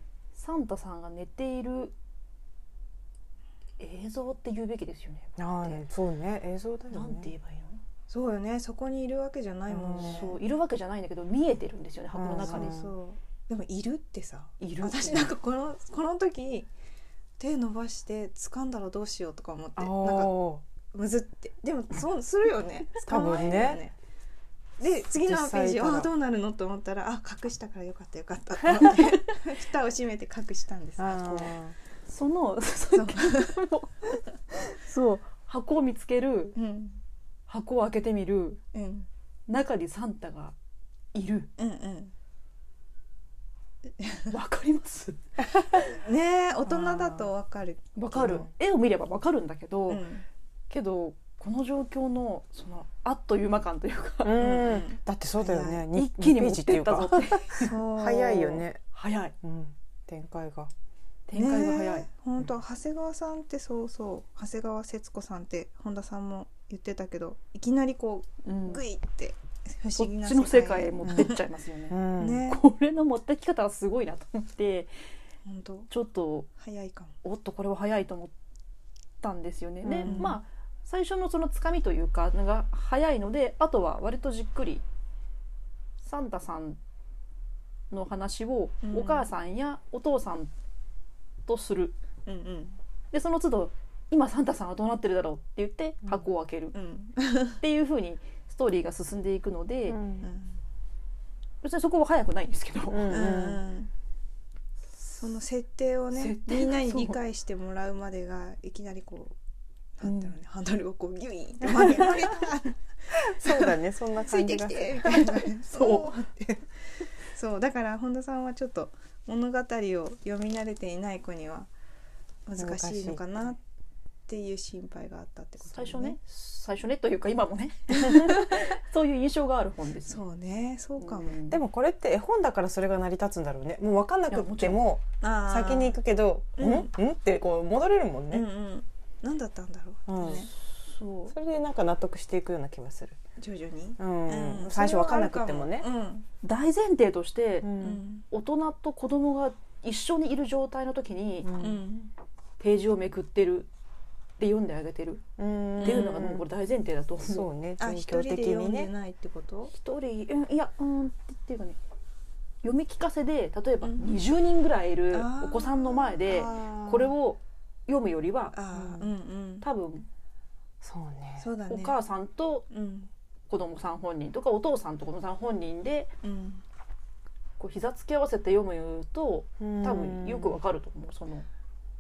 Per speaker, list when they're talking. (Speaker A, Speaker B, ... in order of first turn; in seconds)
Speaker A: 0.3-1.9, 3.8-5.9, 6.9-7.8, 10.0-12.8, 14.6-15.3, 32.0-36.6, 37.5-38.6, 39.5-40.5, 41.1-41.5, 44.3-45.2, 48.0-50.0, 50.7-54.6, 55.9-57.7, 58.9-59.3, 61.3-62.1, 68.4-68.8, 70.0-74.9, 75.9-76.5, 77.2-78.3, 79.2-84.8, 86.0-86.8, 87.9-90.5, 91.5-92.0, 93.1-96.8, 97.6-100.0, 101.6-103.1, 106.1-107.2, 125.7-130.2, 131.0-131.6, 134.3-134.8, 140.2-141.3, 146.4-147.7, 148.3-151.5, 152.6-153.7, 154.4-155.2, 155.8-157.5, 159.7-161.8, 162.6-168.6, 169.6-170.1, 171.7-172.7, 173.5-176.1, 177.6-181.5
Speaker B: 5.4-7.3, 9.7-10.3, 12.1-12.9, 19.8-20.6, 23.0-23.8, 25.1-26.1, 31.0-31.8, 46.7-47.3, 54.2-58.8, 59.4-60.7, 71.0-71.3, 71.9-72.4, 79.8-80.4, 99.9-100.3, 102.9-103.6, 110.0-110.3, 111.7-112.2, 113.1-116.1, 122.6-123.2, 131.5-138.5, 140.1-140.5, 141.3-143.2, 144.0-145.9, 147.6-148.0, 151.4-151.8, 155.4-156.4, 157.2-158.9, 166.3-167.1, 168.7-169.0, 170.8-171.5, 179.6-180.6
Speaker C: 8.1-10.4, 12.4-16.7, 17.4-20.3, 20.9-23.9, 24.8-31.6, 32.9-33.6, 36.5-37.0, 38.7-39.1, 41.6-42.1, 44.0-44.3, 45.9-48.5, 49.9-50.2, 54.4-55.9, 57.6-58.6, 61.3-71.4, 72.2-72.6, 75.5-75.9, 76.6-77.1, 80.0-80.4, 88.8-89.3, 92.2-92.8, 96.7-97.6, 100.2-100.6, 103.1-103.9, 105.2-109.3, 110.0-116.7, 117.3-121.7, 122.5-123.6, 124.3-126.2, 128.1-128.6, 130.1-131.4, 135.2-136.0, 136.6-136.9, 138.3-140.5, 143.4-146.2, 147.8-148.2, 151.6-152.1, 155.8-156.2, 157.8-159.7, 163.8-164.1, 165.1-166.5, 168.5-169.7, 171.4-172.0, 172.7-173.1, 176.2-176.6